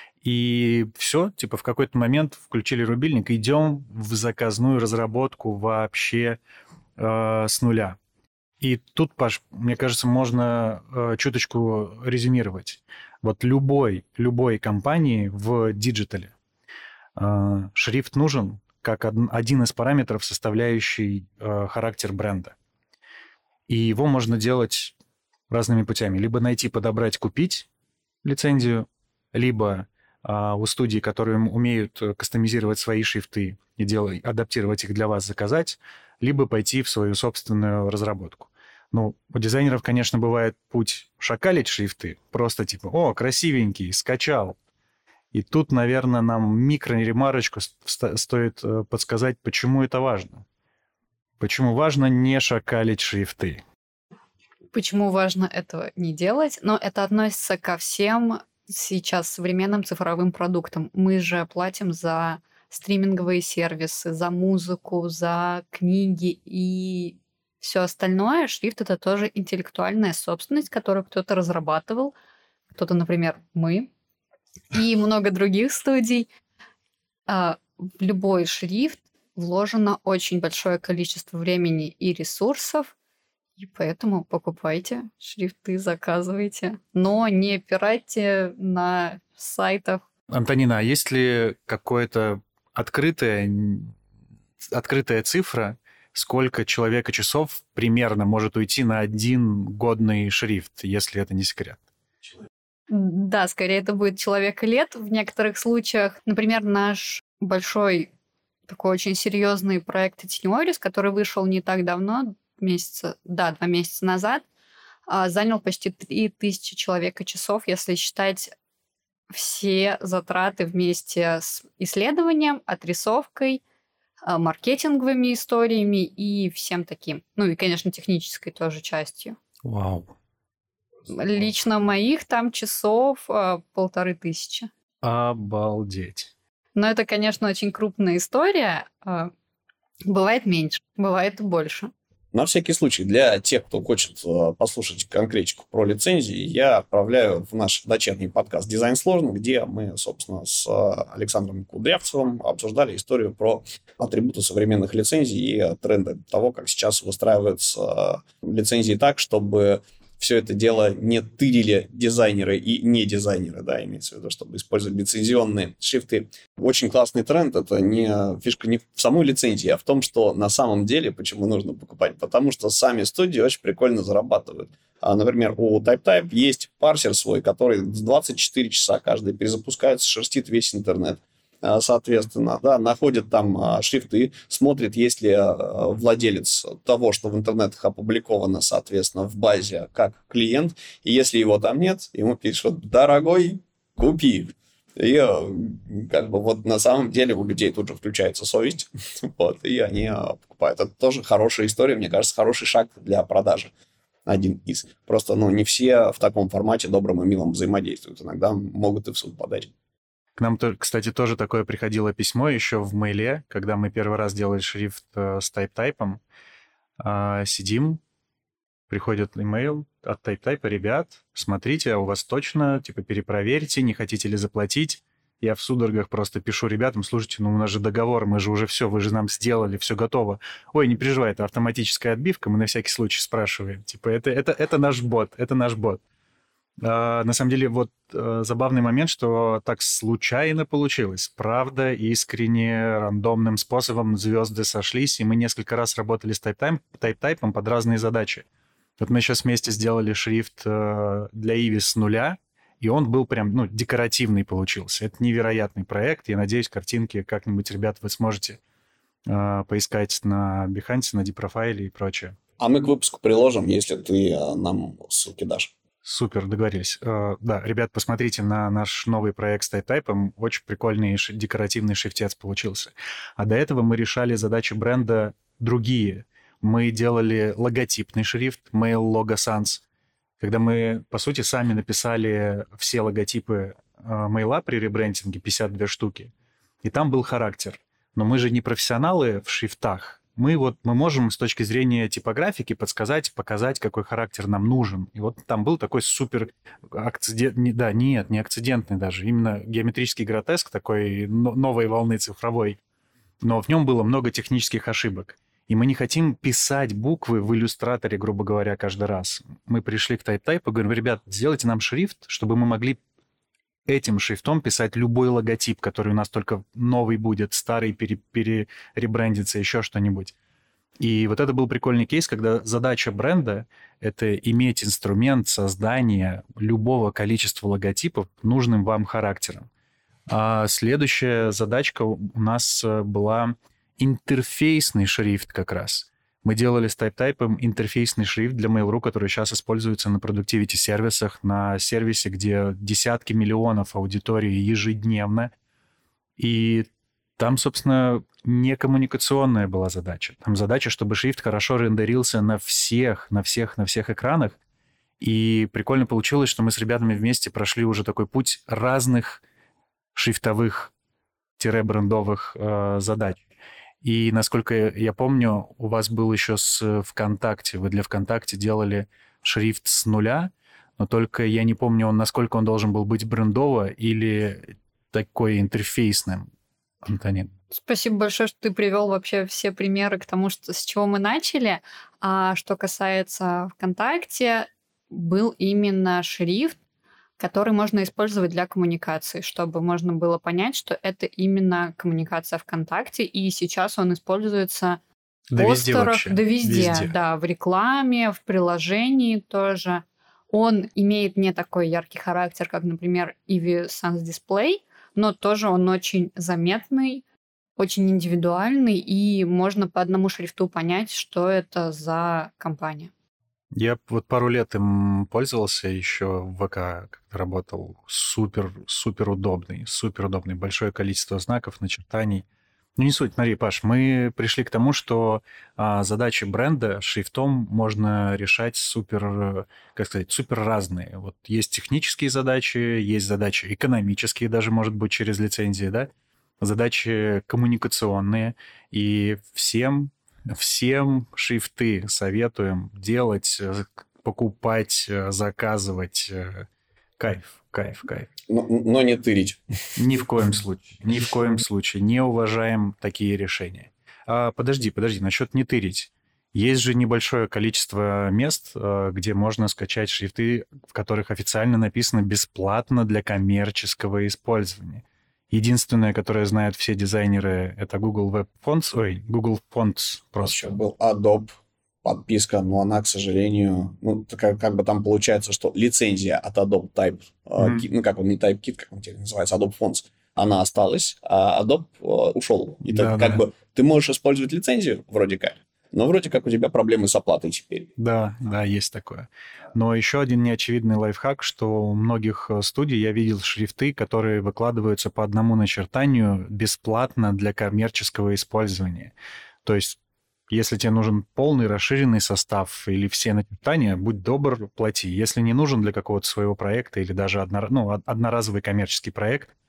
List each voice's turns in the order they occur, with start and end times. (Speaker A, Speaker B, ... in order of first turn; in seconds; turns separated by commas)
Speaker A: 0.2-6.4, Speaker A: 7.0-8.0, Speaker A: 8.6-16.3, Speaker A: 17.2-22.5, Speaker A: 23.7-24.9, Speaker A: 25.5-27.7, Speaker A: 28.2-44.6, Speaker A: 45.3-50.4, Speaker A: 51.4-53.6, Speaker B: 54.7-72.1, Speaker B: 72.7-73.9, Speaker B: 74.7-76.3, Speaker B: 77.3-82.9, Speaker B: 83.6-90.0, Speaker A: 90.3-93.9, Speaker A: 94.7-101.8, Speaker B: 102.9-108.1, Speaker B: 108.7-114.4, Speaker B: 115.1-118.5, Speaker B: 119.3-123.6, Speaker B: 124.3-129.4, Speaker A: 129.6-130.1, Speaker B: 131.1-134.7, Speaker A: 135.0-136.3, Speaker B: 136.8-139.3, Speaker B: 140.1-141.9, Speaker C: 142.3-203.7, Speaker C: 204.2-209.7, Speaker A: 210.3-216.2, Speaker A: 217.0-218.0, Speaker A: 218.9-236.0, Speaker A: 236.8-248.4, Speaker A: 249.0-258.6, Speaker A: 259.2-262.4, Speaker C: 262.6-265.7, Speaker A: 266.0-279.8, Speaker A: 280.4-286.3, Speaker A: 286.8-302.8, Speaker A: 303.4-313.0, Speaker A: 313.9-320.3, Speaker A: 321.0-329.7, Speaker A: 330.3-345.5, Speaker A: 346.4-354.6, Speaker A: 355.2-359.4, Speaker A: 360.1-360.9, Speaker A: 361.6-363.4, Speaker A: 364.0-376.5, Speaker A: 377.0-377.5, Speaker B: 377.7-386.8, Speaker B: 387.4-395.0, Speaker A: 395.5-397.1, Speaker B: 395.6-407.2, Speaker B: 407.8-413.1, Speaker A: 413.7-422.4, Speaker A: 423.0-446.7, Speaker A: 447.2-448.3, Speaker C: 448.5-449.6, Speaker A: 449.9-470.7, Speaker C: 470.4-471.5, Speaker C: 472.0-487.9, Speaker A: 477.6-477.9, Speaker A: 482.9-483.4, Speaker A: 488.0-499.1, Speaker A: 499.6-500.0, Speaker A: 500.5-509.5